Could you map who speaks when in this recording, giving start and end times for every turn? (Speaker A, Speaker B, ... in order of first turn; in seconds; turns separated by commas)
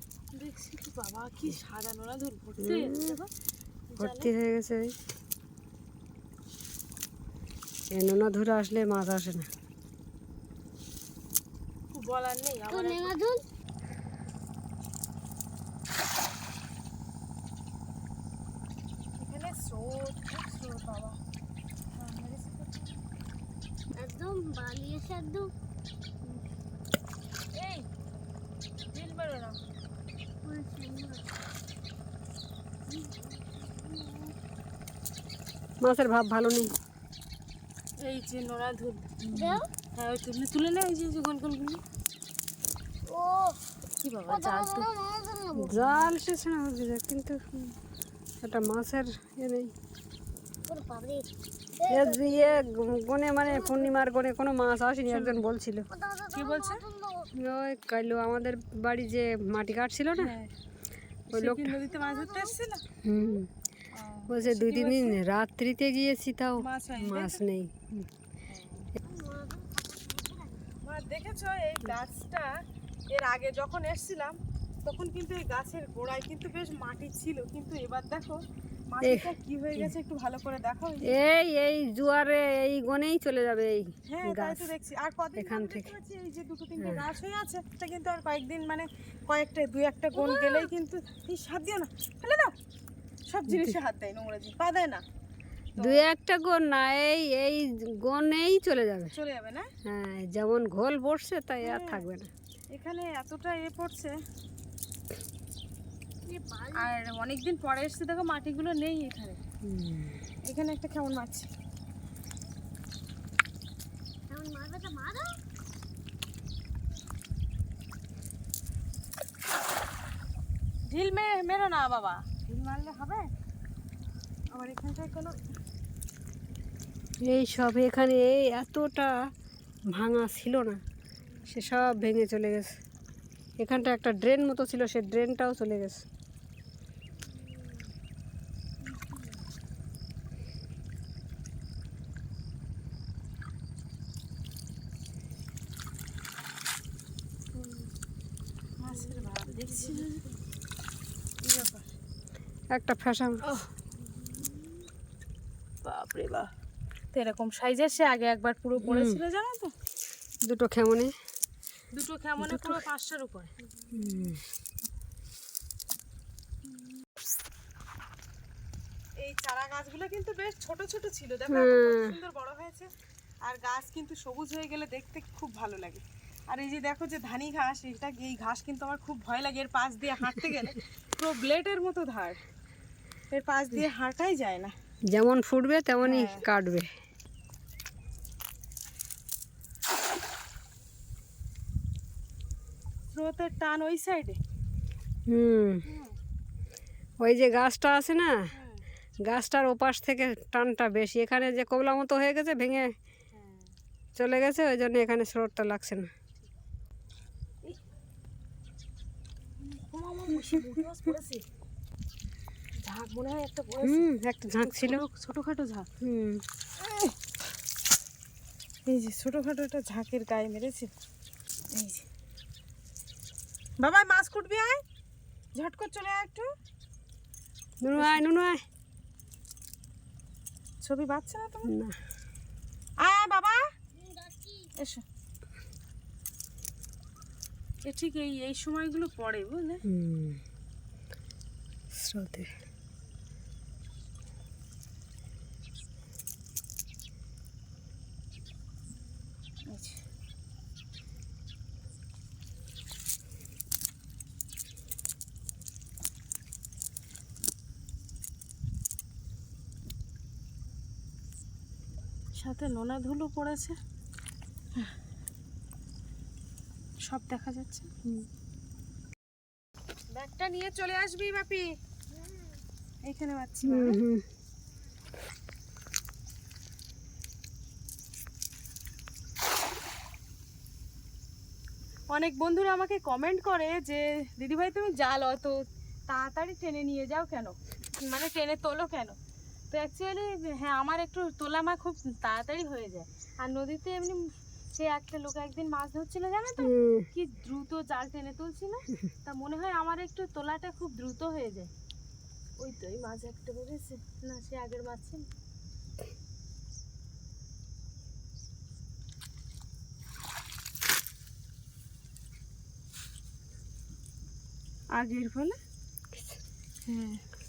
Speaker A: 0.3-3.3, Speaker B: 2.6-3.2, Speaker A: 3.9-4.3, Speaker B: 4.0-4.9, Speaker B: 7.9-9.5, Speaker A: 11.9-13.2, Speaker C: 12.7-13.4, Speaker A: 19.2-21.2, Speaker A: 22.0-23.1, Speaker C: 24.0-25.5, Speaker A: 27.5-27.9, Speaker A: 28.9-29.6, Speaker C: 30.4-31.3, Speaker C: 32.9-34.1, Speaker B: 35.8-36.7, Speaker A: 38.0-39.2, Speaker B: 39.2-39.6, Speaker C: 39.3-39.7, Speaker A: 39.9-41.8, Speaker C: 43.1-43.6, Speaker A: 44.0-44.9, Speaker C: 44.3-46.0, Speaker B: 45.6-47.4, Speaker B: 48.4-49.7, Speaker C: 50.7-52.6, Speaker B: 51.9-55.9, Speaker C: 53.5-53.9, Speaker A: 55.1-55.4, Speaker C: 55.9-57.3, Speaker A: 56.3-56.8, Speaker B: 57.3-60.3, Speaker A: 60.2-60.5, Speaker A: 61.3-62.8, Speaker B: 61.3-61.8, Speaker C: 61.9-62.5, Speaker B: 63.0-63.5, Speaker A: 63.9-65.2, Speaker B: 64.3-68.1, Speaker A: 66.6-67.4, Speaker A: 68.5-68.9, Speaker C: 69.0-70.7, Speaker A: 70.8-72.5, Speaker A: 73.1-78.4, Speaker A: 78.9-81.2, Speaker B: 79.0-79.9, Speaker B: 81.0-84.7, Speaker A: 84.1-92.5, Speaker B: 85.4-85.9, Speaker B: 86.8-87.0, Speaker C: 90.1-90.7, Speaker A: 93.3-95.0, Speaker B: 93.5-93.8, Speaker B: 95.8-99.1, Speaker A: 95.8-96.0, Speaker A: 99.1-99.7, Speaker B: 99.8-102.3, Speaker A: 101.6-102.0, Speaker A: 102.7-104.2, Speaker C: 106.2-106.9, Speaker A: 106.8-109.4, Speaker B: 109.6-110.2, Speaker A: 110.5-111.5, Speaker C: 114.3-115.3, Speaker A: 120.9-123.3, Speaker A: 124.5-125.4, Speaker B: 127.2-129.3, Speaker B: 129.9-130.8, Speaker B: 131.5-132.8, Speaker B: 133.6-136.1, Speaker C: 147.6-147.8, Speaker A: 148.8-150.2, Speaker C: 149.1-150.0, Speaker A: 151.4-151.9, Speaker B: 152.7-153.4, Speaker A: 153.4-153.7, Speaker A: 155.8-156.5, Speaker A: 157.1-159.7, Speaker B: 158.8-159.2, Speaker B: 160.4-161.1, Speaker A: 161.9-163.5, Speaker B: 162.4-162.8, Speaker B: 163.9-164.4, Speaker A: 169.2-172.9, Speaker B: 171.5-172.1, Speaker A: 173.4-182.4, Speaker A: 183.3-184.7, Speaker B: 185.1-186.9, Speaker A: 186.0-186.4, Speaker A: 193.1-194.4, Speaker B: 195.3-195.8, Speaker A: 195.8-196.1, Speaker B: 197.2-198.5, Speaker A: 198.5-198.8, Speaker B: 199.2-202.9, Speaker A: 203.3-203.7, Speaker B: 204.2-206.1, Speaker A: 209.7-211.4, Speaker A: 212.8-215.9, Speaker B: 213.8-215.0, Speaker B: 216.0-216.4, Speaker A: 216.8-217.1, Speaker A: 218.9-220.9, Speaker A: 221.7-222.0, Speaker A: 223.8-224.8, Speaker A: 225.6-226.5, Speaker B: 227.8-228.6, Speaker A: 227.9-228.2, Speaker A: 230.8-231.8, Speaker B: 231.6-232.0, Speaker A: 233.0-233.6, Speaker C: 233.9-234.7, Speaker A: 234.8-235.0, Speaker A: 237.8-239.8, Speaker B: 239.9-240.4, Speaker B: 241.9-242.5, Speaker A: 249.7-250.0, Speaker A: 262.4-263.8, Speaker A: 267.0-267.9, Speaker A: 270.1-271.7, Speaker A: 273.0-274.0, Speaker B: 273.7-274.2, Speaker A: 282.1-289.2, Speaker A: 289.7-301.7, Speaker B: 296.6-297.1, Speaker A: 302.6-305.3, Speaker A: 314.9-315.6, Speaker A: 316.9-317.2